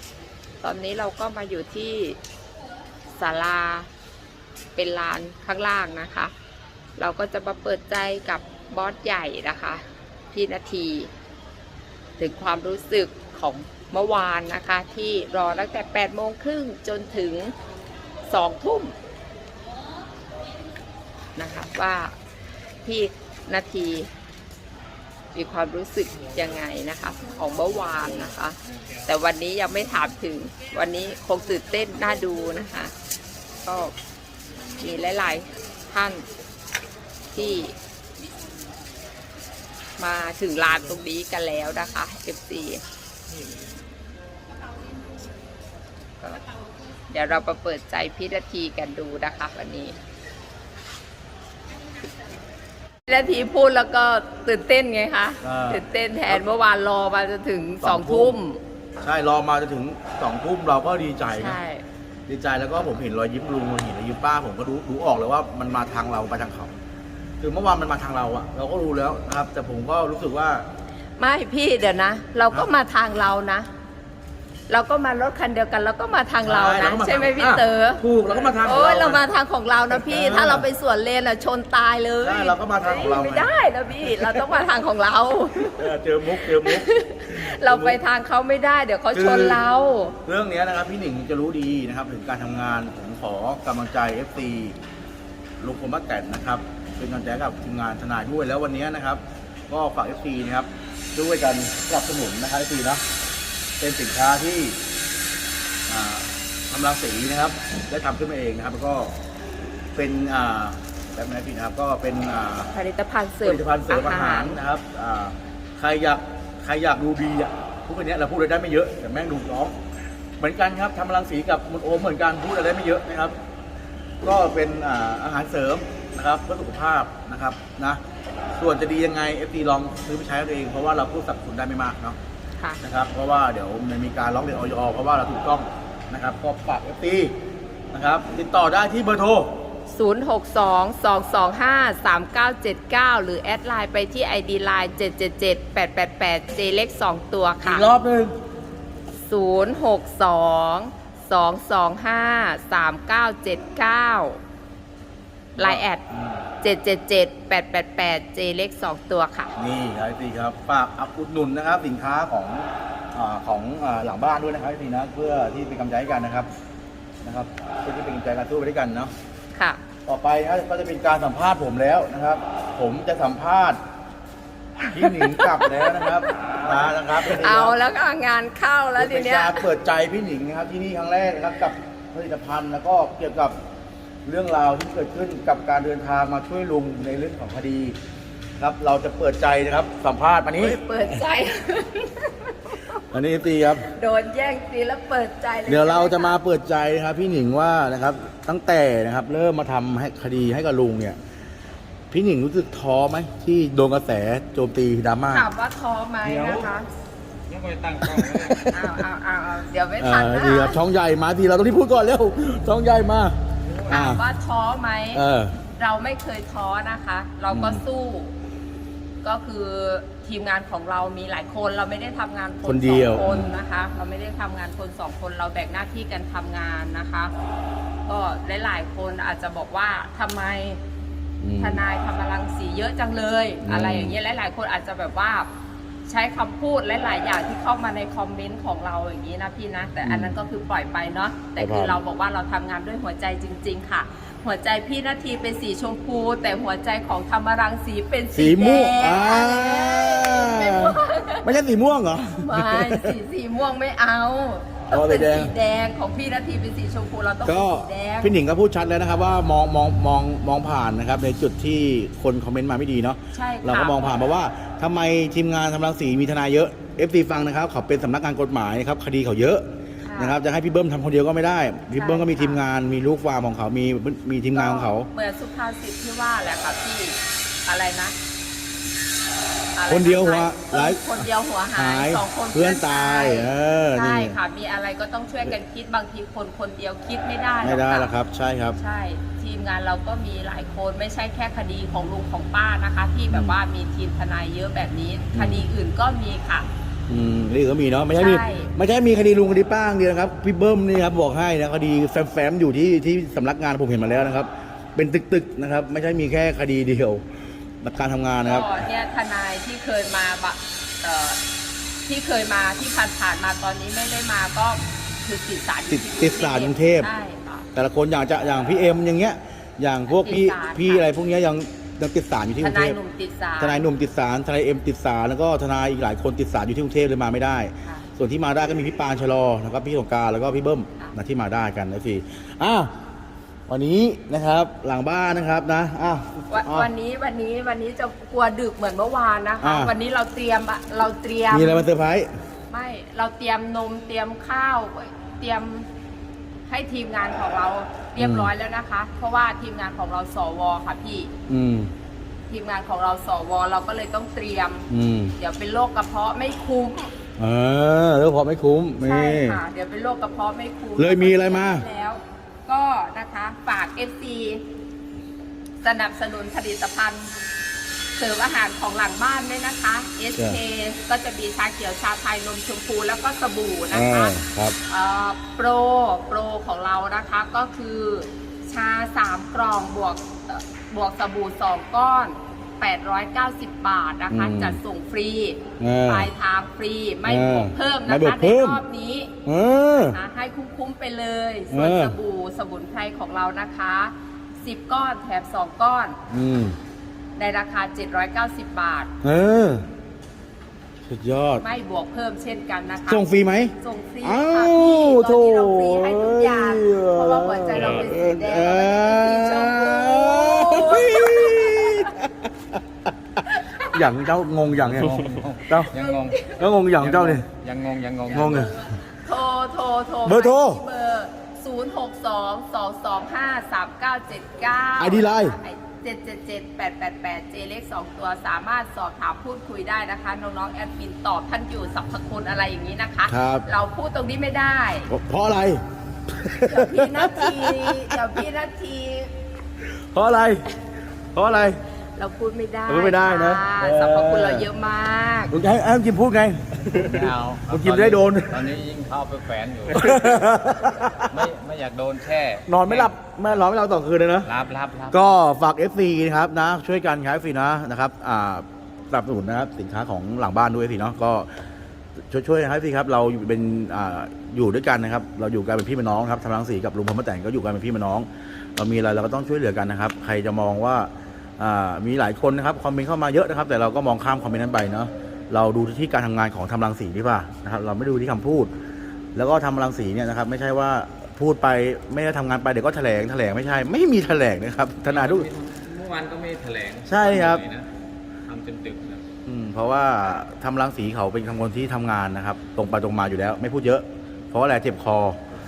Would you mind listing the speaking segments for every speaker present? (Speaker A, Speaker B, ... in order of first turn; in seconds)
Speaker A: 0.6-2.2, 3.1-3.9, 4.8-6.3, 7.0-11.1, 12.2-17.5, 18.2-18.9, 21.4-22.1, 22.8-24.1, 25.3-32.9, 33.6-33.9, 34.8-36.2, 37.3-37.7, 40.0-42.8, 47.1-50.0, 53.1-58.6, 61.4-61.8, 71.2-73.7, 74.7-78.0, 78.6-85.9, 86.4-90.2, 112.7-114.6, 139.9-147.9, 149.2-154.4, 155.6-156.0, 156.6-159.5, 169.5-169.8, 174.9-176.4, 177.3-179.6, 190.6-192.8, 193.8-196.4, 205.3-206.9, 208.7-210.8, 213.9-218.3, 219.2-227.3, 228.1-230.8, 231.6-235.5, 236.1-251.4, 252.4-258.3, 263.3-264.1, 270.0-270.4, 271.9-272.6, 274.5-278.1, 279.7-288.1, 288.8-296.7, 298.1-298.7, 308.4-311.4, 312.1-317.7, 320.1-321.1, 322.6-323.8, 336.5-341.8, 342.7-345.9, 346.7-351.3, 352.5-354.9, 355.4-357.1, 359.0-364.6, 365.8-367.3, 368.2-389.3, 389.9-396.2, 397.4-399.1, 401.6-403.2, 403.8-412.1, 413.4-414.0, 416.0-416.5, 418.4-435.1, 436.6-439.3, 442.1-445.5
Speaker B: 55.4-56.4, 57.8-58.4, 59.0-61.6, 62.3-66.7, 67.4-70.6, 76.4-79.2, 79.9-80.7, 82.2-83.5, 84.1-84.4, 85.6-88.0, 89.1-89.6, 90.2-94.8, 95.6-103.0, 103.8-104.8, 105.9-109.1, 109.9-112.7, 113.4-119.8, 120.4-123.4, 124.2-128.0, 128.6-132.2, 132.8-137.3, 137.9-139.5, 147.6-148.3, 155.6-156.4, 159.6-166.5, 167.2-169.1, 170.1-173.8, 174.9-177.7, 178.9-183.6, 184.2-187.9, 188.6-190.8, 193.1-193.9, 195.7-201.2, 202.1-205.5, 210.0-213.3, 213.9-214.2, 215.1-215.5, 217.5-217.8, 222.6-223.5, 231.4-231.8, 233.6-234.1, 240.0-240.3, 241.6-242.0, 248.3-253.1, 254.9-255.5, 257.4-269.6, 270.2-275.1, 279.9-284.4, 287.6-288.8, 293.3-293.6, 295.3-295.7, 297.1-307.2, 307.8-308.9, 315.9-317.1, 317.7-323.0, 323.6-332.9, 333.7-336.9, 339.6-339.9, 341.5-342.3, 348.2-348.5, 351.5-351.9, 354.9-355.3, 357.4-359.6, 361.0-361.8, 373.9-374.8, 384.3-384.8, 385.8-386.3, 387.2-388.8, 389.4-390.2, 391.7-392.1, 396.3-396.8, 399.2-399.8, 401.1-401.6, 403.1-412.8, 413.8-415.9, 416.5-417.4, 418.3-418.7, 420.2-420.8, 425.0-425.6, 433.3-433.6, 435.1-438.3, 440.1-440.6, 441.3-441.8, 442.9-444.7, 445.5-448.6, 449.9-451.3, 452.7-454.5, 455.1-461.5, 462.3-478.7, 479.3-485.5, 487.1-487.6, 489.4-495.4
Speaker C: 206.2-206.7, 207.5-208.8, 213.7-214.1, 414.9-418.7, 446.9-450.4, 451.2-453.6, 454.4-455.2, 485.1-487.9, 488.4-489.2